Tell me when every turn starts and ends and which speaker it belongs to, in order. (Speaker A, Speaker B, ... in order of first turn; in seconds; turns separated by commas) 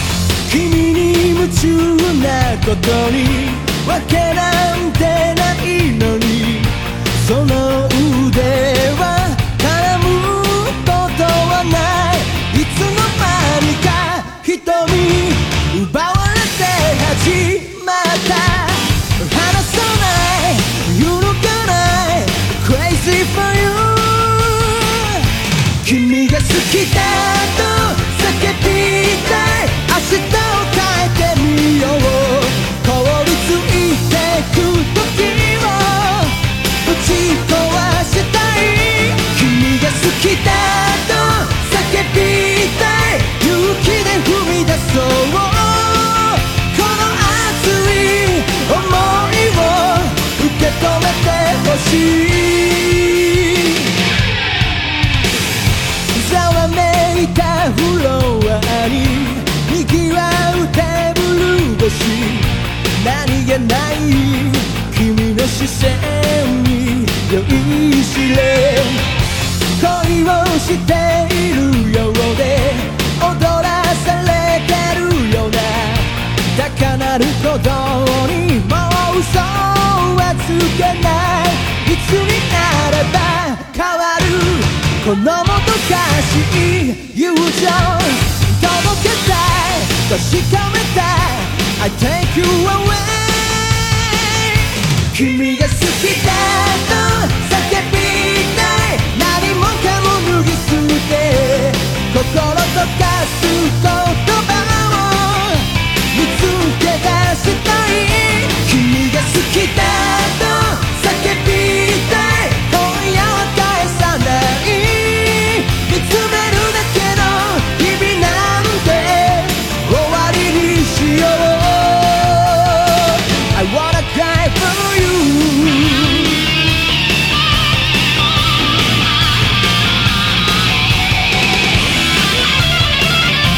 Speaker A: 0.4-53.9, Speaker A: 56.1-69.1, Speaker A: 69.7-126.4